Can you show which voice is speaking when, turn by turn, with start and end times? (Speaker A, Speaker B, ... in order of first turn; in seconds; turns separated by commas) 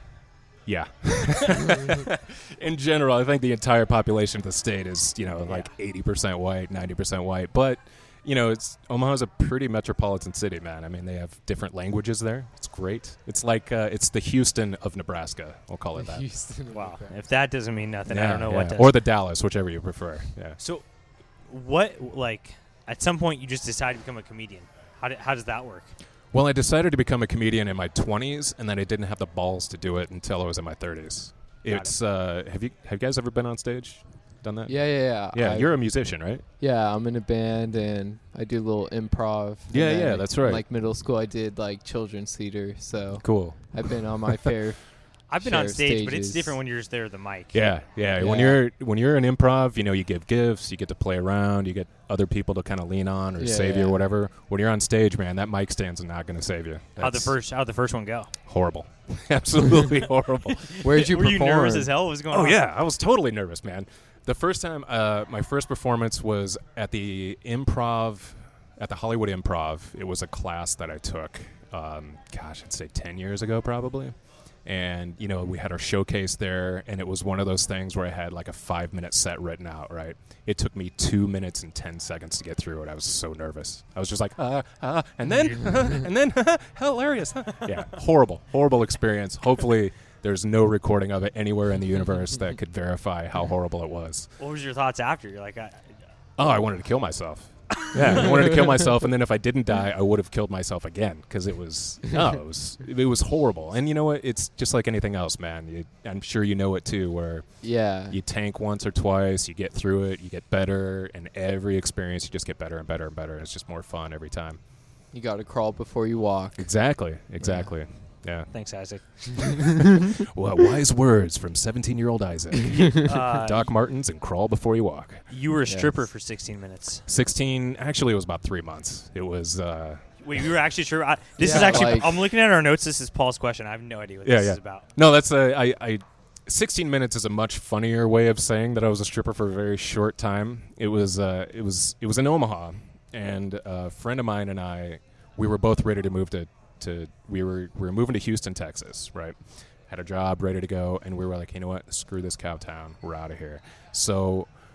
Speaker A: 0.7-16.2, Speaker B: 15.9-17.2, Speaker C: 16.7-18.9, Speaker A: 18.1-20.6, Speaker C: 20.6-20.9, Speaker C: 21.5-25.9, Speaker A: 26.3-36.5, Speaker C: 31.7-31.9, Speaker B: 34.7-35.9, Speaker B: 36.6-44.8, Speaker A: 39.7-40.7, Speaker A: 43.2-43.9, Speaker C: 45.3-47.6, Speaker B: 45.4-46.5, Speaker A: 47.5-57.4, Speaker B: 48.2-48.6, Speaker B: 53.4-54.0, Speaker C: 57.0-58.3, Speaker A: 58.5-60.8, Speaker C: 60.5-62.6, Speaker B: 60.8-61.9, Speaker A: 62.3-94.3, Speaker C: 94.4-95.9, Speaker A: 96.4-107.6, Speaker B: 98.1-98.6, Speaker B: 107.6-108.2, Speaker A: 108.1-114.6, Speaker B: 115.1-117.7, Speaker A: 116.6-118.5, Speaker C: 118.5-119.7, Speaker A: 120.3-125.2, Speaker C: 122.7-123.7, Speaker C: 125.3-127.0, Speaker B: 125.7-125.9, Speaker A: 127.1-130.0, Speaker C: 130.2-134.9, Speaker B: 131.4-132.2, Speaker A: 131.5-131.9, Speaker A: 134.2-149.4, Speaker A: 149.9-154.5